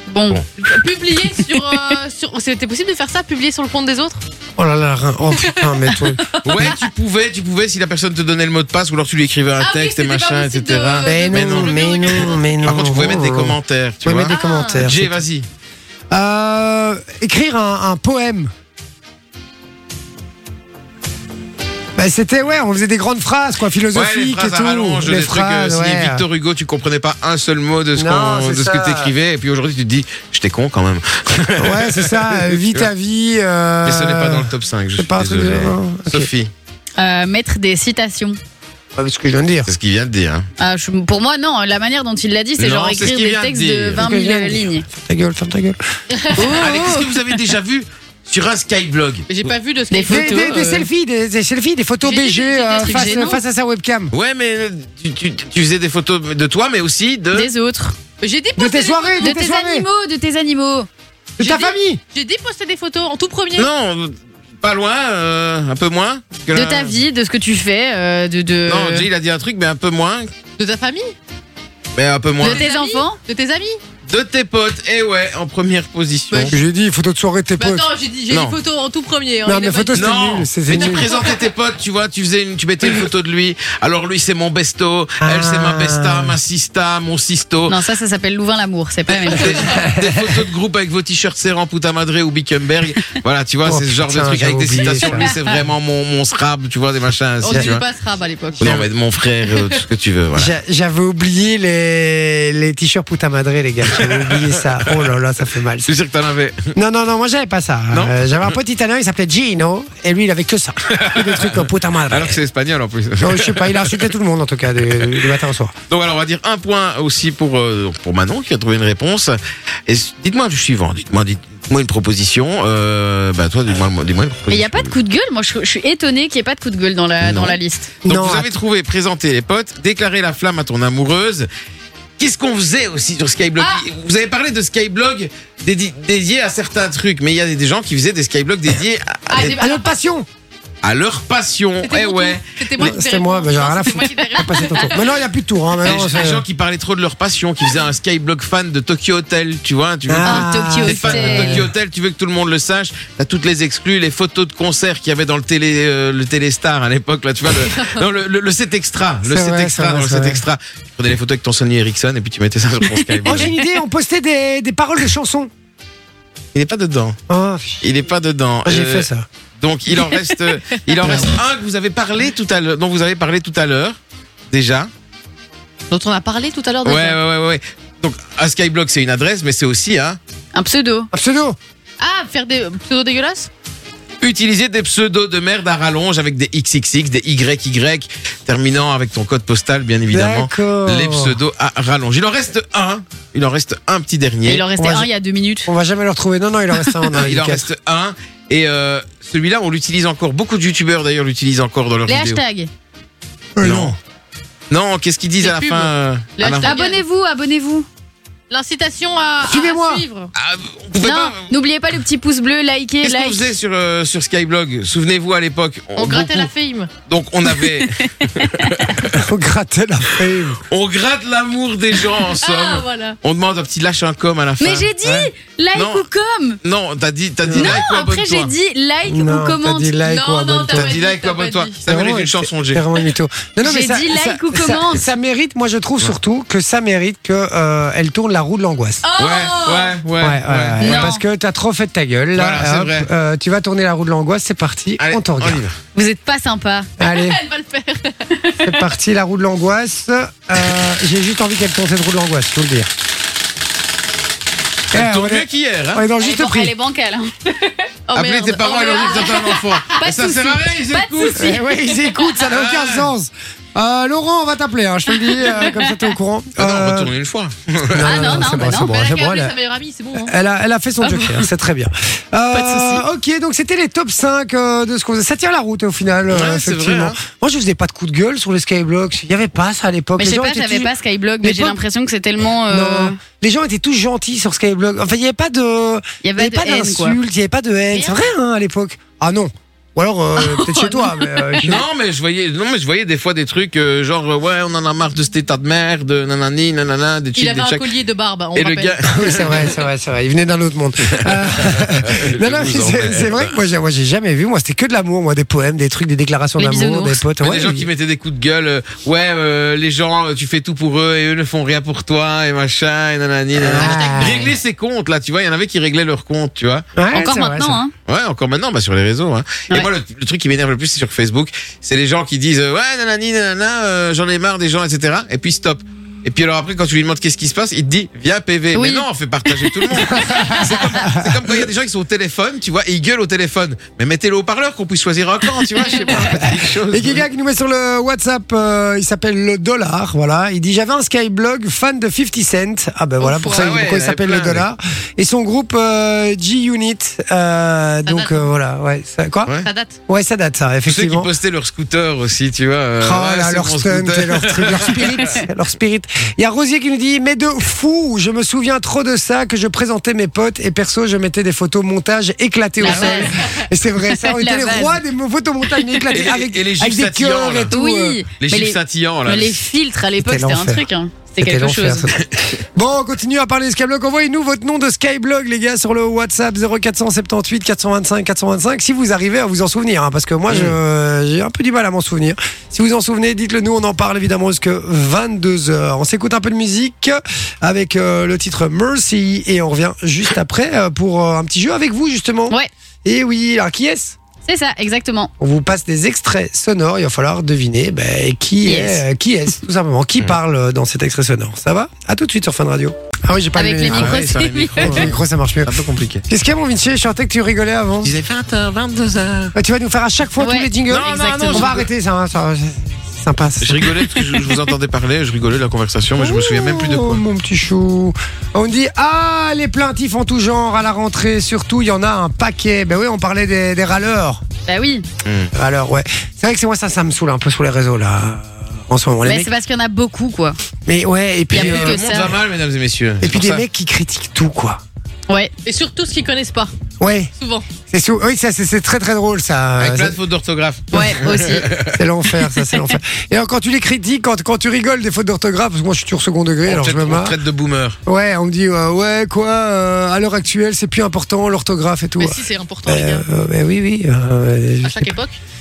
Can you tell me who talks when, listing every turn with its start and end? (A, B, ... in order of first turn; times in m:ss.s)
0:00.1-0:00.4 A
0:00.6-0:04.2 B
0:04.6-0:06.2 C
0:05.4-0:06.7 B
0:06.4-0:15.5 D
0:09.6-0:12.4 B
0:11.0-0:15.2 C
0:14.3-0:14.8 B
0:16.1-0:18.5 C
0:22.0-0:26.2 C
0:23.9-0:32.9 D
0:28.0-0:29.1 C
0:31.6-0:36.3 C
0:33.8-0:36.5 D
0:37.0-0:38.4 A
0:39.0-0:39.7 C
0:39.6-0:40.5 D
0:40.6-0:44.8 A
0:42.6-0:44.0 D
0:44.0-0:45.8 C
0:46.1-0:46.4 B
0:46.4-0:47.4 A
0:46.6-0:49.5 D
0:49.3-0:50.9 B
0:50.0-0:54.1 C
0:52.0-0:53.3 B
0:52.8-0:53.4 A
0:54.1-0:57.5 D
0:57.3-0:58.0 A
0:58.2-0:59.6 B
0:58.6-0:59.8 C
0:59.2-1:00.9 A
1:01.4-1:02.0 C
1:01.4-1:03.7 B
1:03.6-1:07.0 D
1:06.5-1:09.1 A
1:08.7-1:10.3 D
1:10.6-1:11.1 B
1:11.9-1:12.6 D
1:12.4-1:13.8 B
1:12.4-1:13.2 A
1:14.1-1:16.6 D
1:16.3-1:16.6 B
1:16.5-1:17.9 C
1:17.6-1:20.3 B
1:18.3-1:18.5 D
1:19.4-1:21.2 C
1:19.9-1:27.8 D
1:20.8-1:21.3 B
1:25.2-1:26.4 C
1:27.7-1:29.6 A
1:29.1-1:37.8 D
1:29.6-1:30.4 C
1:33.6-1:35.3 C
1:37.4-1:38.7 B
1:38.6-1:38.8 C
1:38.6-1:40.5 D
1:40.3-1:45.9 C
1:43.9-1:44.9 D
1:45.8-1:46.7 D
1:46.7-1:52.4 C
1:50.9-1:54.1 D
1:53.2-1:55.7 C
1:54.9-1:55.3 D
1:55.9-2:04.9 D
2:04.5-2:07.9 A
2:07.2-2:11.5 D
2:08.0-2:08.5 C
2:12.2-2:19.6 D
2:13.6-2:13.8 B
2:19.3-2:19.9 B
2:19.5-2:20.2 C
2:20.8-2:22.4 D
2:21.8-2:25.1 B
2:22.8-2:26.4 C
2:25.8-2:43.6 D
2:30.1-2:31.7 C
2:30.2-2:31.6 A
2:37.6-2:37.9 B
2:39.2-2:40.4 C
2:43.2-2:45.5 C
2:46.5-2:47.2 D
2:47.3-2:47.9 C
2:47.8-2:54.0 D
2:48.6-2:49.3 C
2:51.1-2:51.3 C
2:54.5-2:54.9 D
2:55.9-2:57.2 B
2:56.8-3:00.2 D
3:00.5-3:01.1 A
3:01.1-3:01.6 C
3:02.0-3:03.5 B
3:04.2-3:14.6 D
3:10.1-3:11.4 C
3:14.4-3:15.7 A
3:14.8-3:15.1 C
3:15.6-3:17.7 C
3:17.2-3:22.4 D
3:22.1-3:22.7 A
3:23.6-3:24.0 C
3:23.6-3:23.9 D
3:24.7-3:26.7 D
3:25.4-3:27.0 B
3:26.6-3:27.9 A
3:28.5-3:30.3 B
3:29.4-3:30.0 C
3:30.3-3:31.4 D
3:31.0-3:33.4 A
3:33.0-3:36.5 D
3:36.0-3:36.9 B
3:37.1-3:39.2 D
3:37.8-3:38.9 A
3:39.1-3:40.6 C
3:40.7-3:45.2 D
3:42.4-3:43.2 B
3:44.6-3:46.6 A
3:45.7-3:46.0 D
3:46.6-3:48.5 D
3:47.4-3:47.8 C
3:47.5-3:50.1 A
3:49.1-3:51.0 C
3:50.0-3:51.8 B
3:50.7-3:52.8 D
3:51.8-3:59.0 C
3:53.6-3:55.0 A
3:59.0-4:00.0 B
3:59.2-4:01.1 D
4:00.2-4:05.6 C
4:00.8-4:01.2 A
4:02.4-4:03.1 D
4:05.0-4:05.8 D
4:05.9-4:06.9 A
4:07.0-4:07.4 C
4:07.0-4:08.3 B
4:08.6-4:12.9 C
4:14.9-4:16.0 D
4:14.9-4:16.7 C
4:16.2-4:17.5 A
4:18.1-4:19.7 B
4:18.1-4:21.6 D
4:18.9-4:19.4 A
4:20.0-4:21.6 A
4:21.3-4:27.1 C
4:22.4-4:23.1 D
4:25.4-4:25.9 A
4:26.6-4:28.4 D
4:27.9-4:29.5 C
4:28.0-4:28.9 A
4:28.7-4:30.3 B
4:30.2-4:41.8 C
4:31.0-4:31.5 A
4:32.5-4:33.0 A
4:36.3-4:37.2 D
4:40.2-4:43.2 A
4:42.7-4:51.8 C
4:46.2-4:47.2 A
4:47.9-4:48.2 B
4:50.4-4:51.6 A
4:51.6-4:57.9 D
4:57.4-4:59.0 B
4:58.5-4:59.8 D
4:59.0-5:07.9 C
5:01.2-5:03.5 D
5:06.6-5:07.2 A
5:07.4-5:16.8 D
5:13.6-5:14.5 C
5:13.8-5:14.5 B
5:17.0-5:17.8 C
5:17.1-5:17.9 A
5:18.0-5:37.2 D
5:28.7-5:29.0 A
5:29.9-5:31.7 C
5:36.1-5:49.5 C
5:43.2-5:43.7 B
5:43.5-5:44.7 D
5:48.0-5:48.4 B
5:49.6-5:50.0 B
5:50.1-5:51.3 C
5:50.8-5:55.4 D
5:53.0-6:08.2 C
6:02.8-6:03.3 A
6:02.9-6:03.2 B
6:04.1-6:05.0 A
6:06.1-6:07.7 D
6:07.7-6:12.1 A
6:08.4-6:09.6 D
6:10.2-6:10.8 C
6:11.4-6:34.2 C
6:20.5-6:20.8 D
6:34.4-6:35.3 A
6:35.4-6:44.2 C
6:38.6-6:39.0 A
6:43.6-6:45.1 A
6:43.9-6:46.2 D
6:44.8-6:45.7 C
6:46.3-6:48.1 C
6:48.0-6:49.5 D
6:49.5-6:54.2 C
6:50.4-6:51.7 A
6:50.9-6:51.9 D
6:53.6-6:57.2 D
6:56.2-7:04.4 C
7:04.7-7:05.0 A
7:05.2-7:05.5 D
7:05.5-7:09.5 C
7:09.2-7:10.6 A
7:10.8-7:12.2 C
7:11.5-7:12.3 A
7:11.5-7:13.6 D
7:13.2-7:14.8 C
7:15.6-7:16.7 B
7:17.0-7:17.3 C
7:17.4-7:17.6 B
7:17.9-7:20.2 C
7:19.8-7:22.0 D
7:20.9-7:21.7 A
7:21.2-7:27.4 C
7:26.7-7:28.0 D
7:28.0-7:35.2 C
7:32.2-7:33.2 B
7:34.8-7:35.4 B